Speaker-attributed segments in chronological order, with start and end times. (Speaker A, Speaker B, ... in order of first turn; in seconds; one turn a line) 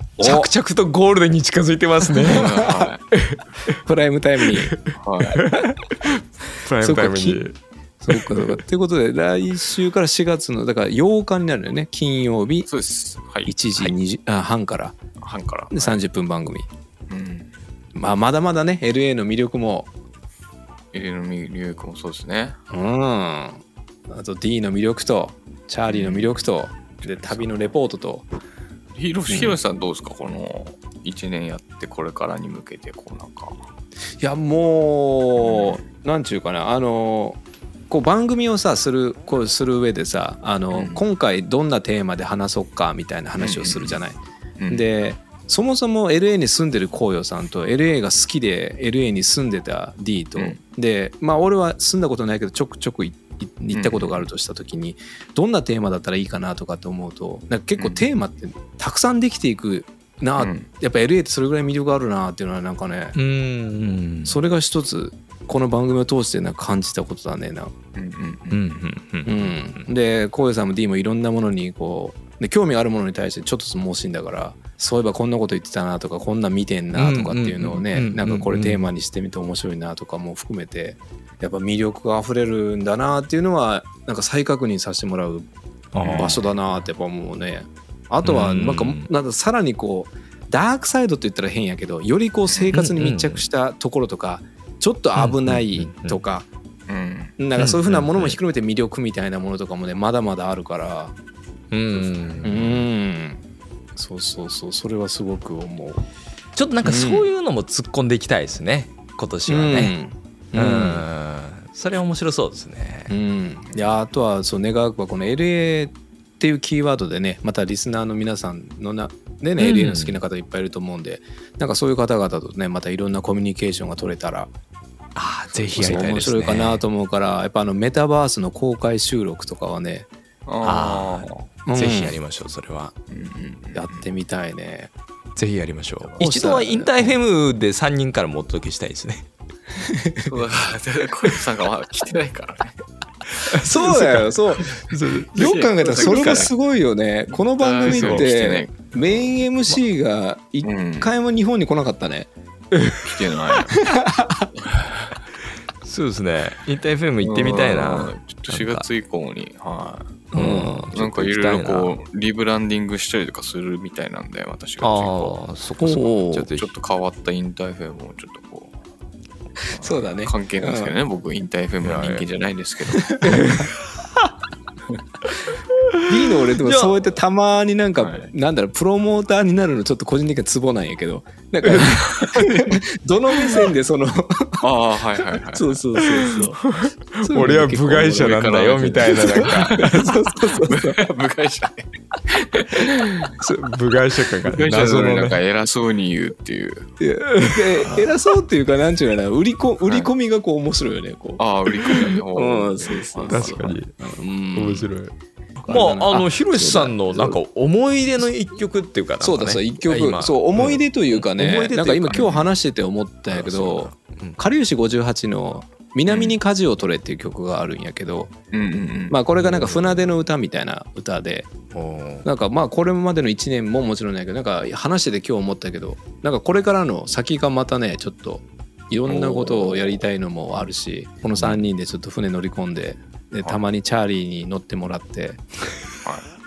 Speaker A: 0.2-3.4
Speaker B: 0.2-0.5
Speaker C: 2.2-3.0
Speaker B: 2.3-2.8
Speaker B: 3.7-4.7
Speaker A: 4.7-7.6
Speaker C: 5.0-5.5
Speaker B: 6.8-7.5
Speaker B: 8.0-12.7
Speaker A: 8.1-8.6
Speaker C: 12.7-13.9
Speaker B: 13.5-14.9
Speaker C: 15.2-16.0
Speaker B: 15.7-16.6
Speaker C: 17.1-17.5
Speaker B: 17.9-19.9
Speaker C: 20.9-22.6
Speaker B: 22.7-28.2
Speaker C: 25.9-26.4
Speaker C: 27.0-27.7
Speaker C: 28.9-33.7
Speaker B: 29.3-29.6
Speaker B: 34.2-37.4
Speaker C: 35.4-35.8
Speaker B: 37.9-63.2
Speaker C: 40.7-41.0
Speaker C: 43.4-44.0
Speaker C: 44.6-44.8
Speaker C: 53.7-54.2
Speaker C: 57.8-58.0
Speaker C: 60.4-60.7
Speaker A: 63.1-64.4
Speaker B: 64.2-67.7
Speaker C: 67.9-68.6
Speaker A: 68.5-69.8
Speaker B: 69.2-85.5
Speaker A: 76.9-78.9
Speaker A: 85.9-86.5
Speaker C: 86.0-86.4
Speaker B: 86.0-96.5
Speaker A: 88.2-89.1
Speaker A: 92.7-93.4
Speaker A: 95.2-96.2
Speaker C: 96.9-97.3
Speaker B: 97.4-101.1
Speaker A: 97.6-98.4
Speaker A: 101.7-102.8
Speaker C: 101.9-102.5
Speaker B: 102.4-103.4
Speaker B: 104.0-106.0
Speaker A: 106.5-109.9
Speaker B: 106.8-107.3
Speaker B: 109.5-111.0
Speaker A: 110.5-113.2
Speaker B: 113.1-124.5
Speaker A: 119.6-120.2
Speaker A: 125.1-126.8
Speaker B: 125.7-130.1
Speaker C: 130.4-131.4
Speaker A: 130.6-132.9
Speaker B: 131.7-132.1
Speaker C: 133.1-134.1
Speaker B: 133.7-134.9
Speaker A: 135.3-139.3
Speaker B: 136.2-137.2
Speaker B: 139.8-140.2
Speaker C: 140.2-142.8
Speaker A: 143.4-144.3
Speaker B: 143.5-152.3
Speaker C: 144.6-146.5
Speaker A: 144.9-146.5
Speaker C: 147.3-148.9
Speaker A: 147.9-148.2
Speaker C: 150.6-151.1
Speaker A: 152.7-153.1
Speaker C: 153.0-153.8
Speaker B: 153.9-154.5
Speaker C: 154.6-155.2
Speaker A: 155.8-158.8
Speaker C: 157.2-165.4
Speaker B: 160.3-160.9
Speaker A: 160.3-162.0
Speaker A: 164.8-166.7
Speaker B: 165.8-166.4
Speaker C: 166.3-168.8
Speaker B: 169.7-170.9
Speaker C: 169.7-173.3
Speaker A: 171.8-172.2
Speaker B: 173.1-173.6
Speaker A: 173.3-174.3
Speaker B: 176.1-184.6
Speaker A: 176.6-176.9
Speaker C: 178.0-178.3
Speaker C: 184.6-186.3
Speaker B: 185.3-186.6
Speaker A: 186.1-190.1
Speaker B: 187.2-188.3
Speaker C: 188.0-193.3
Speaker B: 189.1-191.0
Speaker A: 193.2-195.4
Speaker C: 194.4-196.9
Speaker B: 197.0-204.9
Speaker A: 197.4-197.9
Speaker C: 201.4-203.8
Speaker A: 203.3-203.9
Speaker A: 204.5-212.4
Speaker B: 205.7-207.4
Speaker B: 209.2-218.3
Speaker A: 213.3-214.4
Speaker C: 216.1-216.4
Speaker C: 218.5-219.2
Speaker B: 219.1-221.5
Speaker A: 219.4-220.1
Speaker A: 221.7-222.2
Speaker B: 222.2-235.4
Speaker C: 229.1-230.0
Speaker C: 236.0-236.3